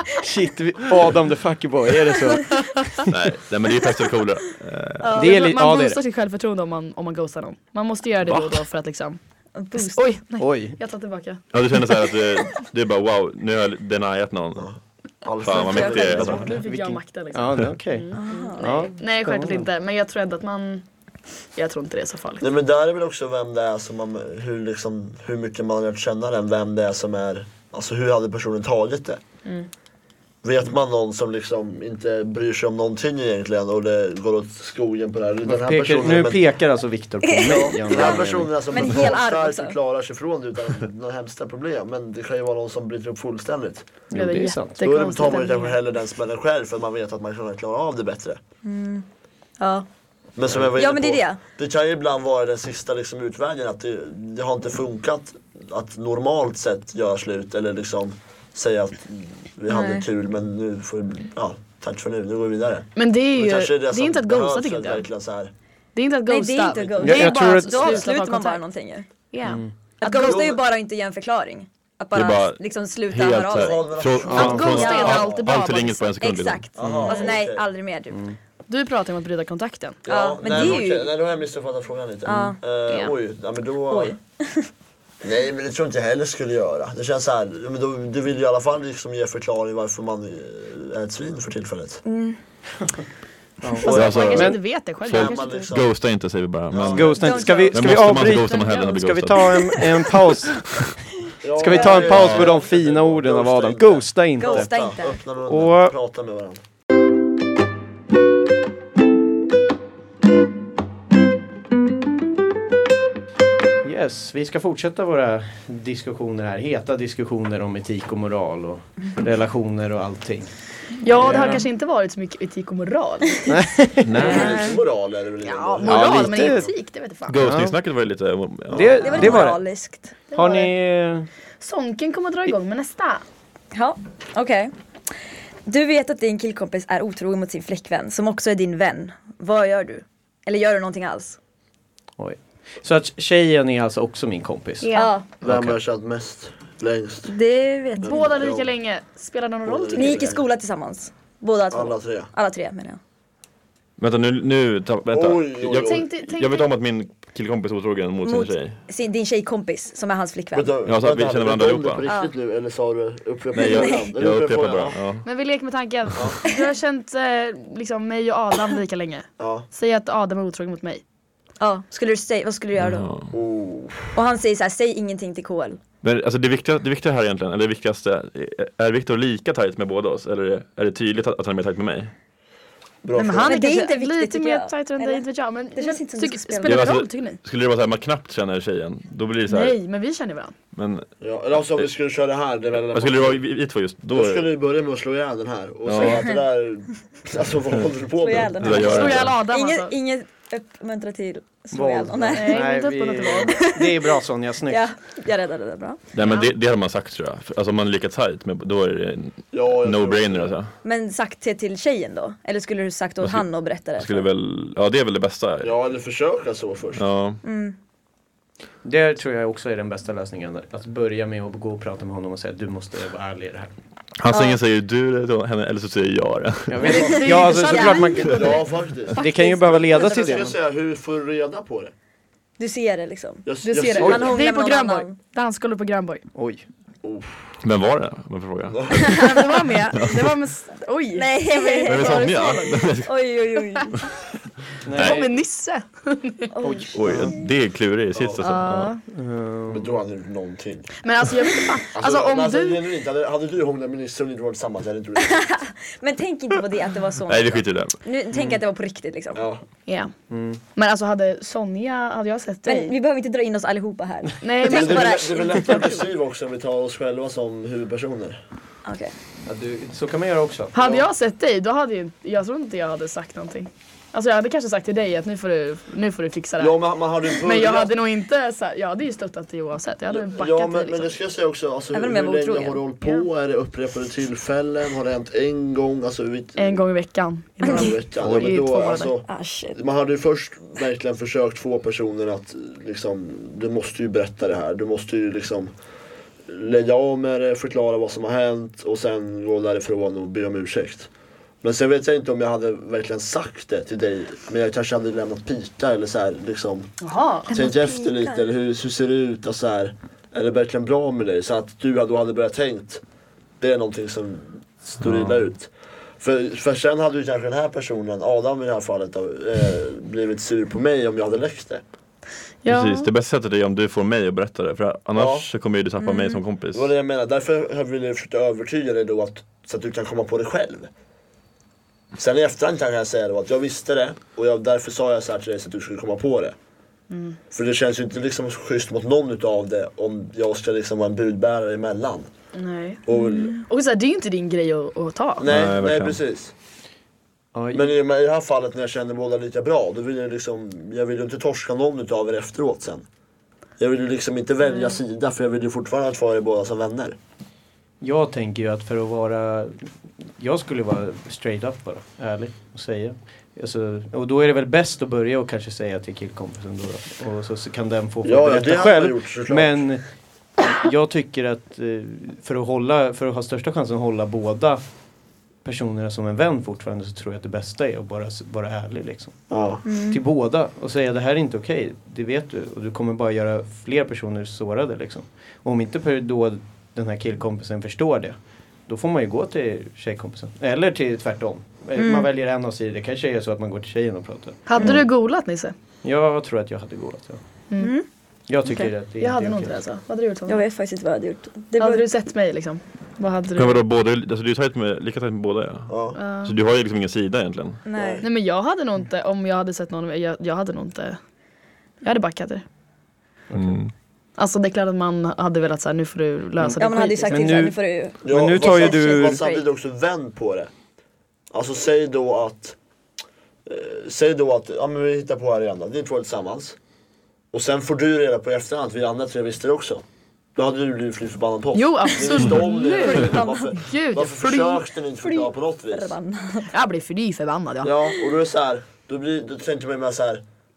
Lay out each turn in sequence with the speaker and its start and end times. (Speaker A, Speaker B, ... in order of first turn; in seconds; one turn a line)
Speaker A: 0.2-3.0
Speaker B: 3.1-5.1
Speaker C: 5.0-5.4
Speaker A: 5.1-6.0
Speaker D: 5.2-9.2
Speaker B: 8.2-8.6
Speaker C: 9.6-10.1
Speaker D: 9.7-12.0
Speaker A: 10.4-10.8
Speaker B: 11.5-14.7
Speaker E: 14.6-16.5
Speaker B: 15.4-16.5
Speaker C: 15.5-16.5
Speaker D: 15.8-20.9
Speaker A: 16.5-19.7
Speaker C: 18.1-18.9
Speaker D: 21.6-22.5
Speaker E: 22.4-29.2
Speaker E: 30.4-36.4
Speaker A: 35.4-38.9
Speaker C: 37.3-39.8
Speaker E: 37.4-43.9
Speaker A: 44.1-44.8
Speaker D: 44.1-45.8
Speaker E: 44.8-48.4
Speaker C: 48.6-49.0
Speaker C: 49.6-49.9
Speaker E: 50.4-65.5
Speaker C: 50.7-51.4
Speaker C: 59.7-60.0
Speaker D: 63.0-65.0
Speaker D: 65.9-68.6
Speaker C: 66.2-69.1
Speaker E: 66.7-67.2
Speaker A: 67.0-68.0
Speaker D: 69.3-70.5
Speaker A: 69.4-69.7
Speaker C: 70.0-75.3
Speaker E: 70.0-70.6
Speaker B: 72.1-77.1
Speaker E: 73.5-75.4
Speaker A: 74.3-74.7
Speaker D: 74.3-76.1
Speaker C: 76.2-78.3
Speaker E: 76.7-77.7
Speaker A: 76.8-77.1
Speaker A: 78.1-78.4
Speaker D: 78.7-80.0
Speaker E: 80.0-84.1
Speaker C: 80.1-81.1
Speaker C: 82.2-82.6
Speaker C: 83.9-84.7
Speaker E: 85.2-92.0
Speaker C: 92.0-92.4
Speaker A: 93.6-94.6
Speaker D: 93.8-95.7
Speaker B: 93.8-99.8
Speaker E: 95.1-95.9
Speaker E: 96.7-97.3
Speaker A: 96.9-100.7
Speaker C: 97.1-98.4
Speaker B: 100.5-100.9
Speaker E: 101.4-106.6
Speaker A: 101.5-104.7
Speaker C: 101.7-102.1
Speaker B: 102.1-102.5
Speaker C: 104.4-105.2
Speaker A: 105.5-105.9
Speaker A: 113.8-120.5
Speaker D: 121.0-124.8
Speaker A: 121.2-121.7
Speaker A: 123.5-124.5
Speaker E: 124.2-126.7
Speaker D: 125.4-127.4
Speaker A: 125.8-126.7
Speaker B: 127.3-129.5
Speaker A: 127.4-127.7
Speaker E: 128.7-129.4
Speaker A: 128.7-129.6
Speaker C: 129.0-130.2
Speaker D: 130.3-130.7
Speaker A: 130.3-131.3
Speaker D: 131.6-133.2
Speaker C: 133.7-134.7
Speaker C: 135.7-141.4
Speaker A: 142.2-144.9
Speaker D: 144.8-145.1
Speaker C: 144.9-145.3
Speaker E: 145.4-147.3
Speaker C: 147.3-148.4
Speaker E: 148.0-148.7
Speaker D: 148.0-150.3
Speaker E: 149.6-150.4
Speaker C: 149.9-153.0
Speaker E: 151.7-152.3
Speaker B: 154.0-158.8
Speaker E: 155.1-156.0
Speaker D: 155.8-156.7
Speaker C: 158.2-160.8
Speaker E: 160.5-165.0
Speaker B: 160.8-162.1
Speaker C: 162.0-162.3
Speaker B: 163.5-165.2
Speaker C: 163.6-164.1
Speaker D: 165.2-171.0
Speaker E: 169.4-169.7
Speaker C: 171.6-173.1
Speaker B: 172.8-173.3
Speaker E: 173.3-174.2
Speaker C: 174.1-175.8
Speaker B: 176.0-182.1
Speaker E: 183.0-183.6
Speaker D: 183.1-187.4
Speaker C: 183.4-186.9
Speaker B: 186.6-189.8
Speaker D: 189.5-190.5
Speaker B: 190.7-191.1
Speaker E: 191.2-193.4
Speaker B: 192.9-194.5
Speaker E: 194.1-199.2
Speaker B: 195.9-196.2
Speaker C: 195.9-196.4
Speaker C: 198.2-202.6
Speaker B: 198.6-199.4
Speaker D: 198.7-199.9
Speaker A: 201.7-204.9
Speaker D: 202.3-203.7
Speaker C: 203.7-204.0
Speaker C: 204.7-206.5
Speaker B: 206.1-210.7
Speaker E: 209.5-210.6
Speaker C: 210.8-214.3
Speaker B: 213.2-215.7
Speaker E: 215.6-217.0
Speaker B: 216.9-217.4
Speaker C: 217.4-217.8
Speaker A: 218.8-223.7
Speaker B: 224.2-226.9
Speaker C: 224.3-224.6
Speaker A: 226.7-230.5
Speaker D: 226.8-228.6
Speaker C: 226.9-228.5
Speaker E: 226.9-227.3
Speaker E: 228.3-231.9
Speaker C: 229.2-230.5
Speaker C: 232.6-233.5
Speaker E: 233.4-234.4
Speaker D: 233.6-236.2
Speaker C: 234.0-235.2
Speaker A: 236.3-236.6
Speaker E: 237.0-237.6
Speaker B: 237.6-239.3
Speaker E: 238.7-239.0
Speaker D: 239.0-242.6
Speaker B: 239.9-240.3
Speaker C: 241.1-244.0
Speaker B: 241.8-243.1
Speaker A: 244.8-245.2
Speaker B: 244.9-245.3
Speaker D: 245.0-246.6
Speaker C: 246.5-247.5
Speaker A: 246.6-247.2
Speaker B: 246.9-248.9
Speaker E: 248.1-248.4
Speaker D: 248.4-249.0
Speaker A: 249.1-249.9
Speaker E: 249.7-251.0
Speaker D: 251.0-252.8
Speaker E: 251.9-255.4
Speaker C: 255.2-259.4
Speaker B: 257.3-258.0
Speaker E: 259.4-259.6
Speaker D: 259.9-260.1
Speaker A: 260.3-260.6
Speaker D: 260.7-262.9
Speaker C: 262.6-266.1
Speaker D: 264.4-265.2
Speaker E: 264.6-268.4
Speaker C: 268.9-269.1
Speaker A: 269.4-270.7
Speaker D: 270.7-281.2
Speaker E: 270.8-271.1
Speaker E: 276.6-277.9
Speaker E: 280.1-286.8
Speaker C: 281.9-282.8
Speaker D: 286.6-289.1
Speaker E: 287.6-295.7
Speaker C: 289.2-289.8
Speaker E: 296.5-301.1
Speaker E: 301.6-306.9
Speaker D: 307.0-307.5
Speaker E: 307.5-313.0
Speaker C: 307.5-308.4
Speaker E: 313.6-315.7
Speaker B: 315.0-315.4
Speaker E: 316.2-321.8
Speaker D: 322.6-323.1
Speaker B: 322.7-326.9
Speaker E: 325.1-325.5
Speaker C: 326.0-326.4
Speaker E: 326.7-330.9
Speaker E: 332.1-336.6
Speaker D: 337.1-337.4
Speaker E: 337.5-342.3
Speaker D: 342.5-345.5
Speaker E: 343.1-343.5
Speaker C: 343.1-343.6
Speaker E: 345.4-346.5
Speaker B: 345.4-346.2
Speaker A: 347.5-347.9
Speaker E: 347.7-353.0
Speaker E: 353.8-357.2
Speaker A: 358.0-370.0
Speaker E: 368.2-369.8
Speaker A: 370.7-374.8
Speaker A: 375.6-394.8
Speaker E: 379.5-379.8
Speaker C: 379.9-380.2
Speaker C: 391.9-392.3
Speaker D: 394.7-395.7
Speaker A: 396.0-397.4
Speaker C: 397.8-398.1
Speaker A: 398.5-399.8
Speaker C: 398.6-398.9
Speaker D: 399.2-400.6
Speaker C: 400.5-402.0
Speaker D: 401.8-403.9
Speaker B: 403.5-407.8
Speaker E: 405.9-406.2
Speaker D: 406.1-406.5
Speaker C: 407.9-408.2
Speaker E: 407.9-408.2
Speaker D: 408.2-411.2
Speaker D: 412.0-412.6
Speaker A: 413.5-413.8
Speaker B: 413.5-413.9
Speaker D: 414.4-417.7
Speaker C: 416.8-419.6
Speaker A: 417.3-419.4
Speaker E: 418.2-420.7
Speaker E: 421.5-422.8
Speaker E: 423.6-426.8
Speaker E: 427.5-430.0
Speaker E: 430.6-436.1
Speaker D: 431.7-434.8
Speaker C: 432.6-433.8
Speaker C: 435.2-436.7
Speaker D: 436.7-437.9
Speaker E: 437.8-440.4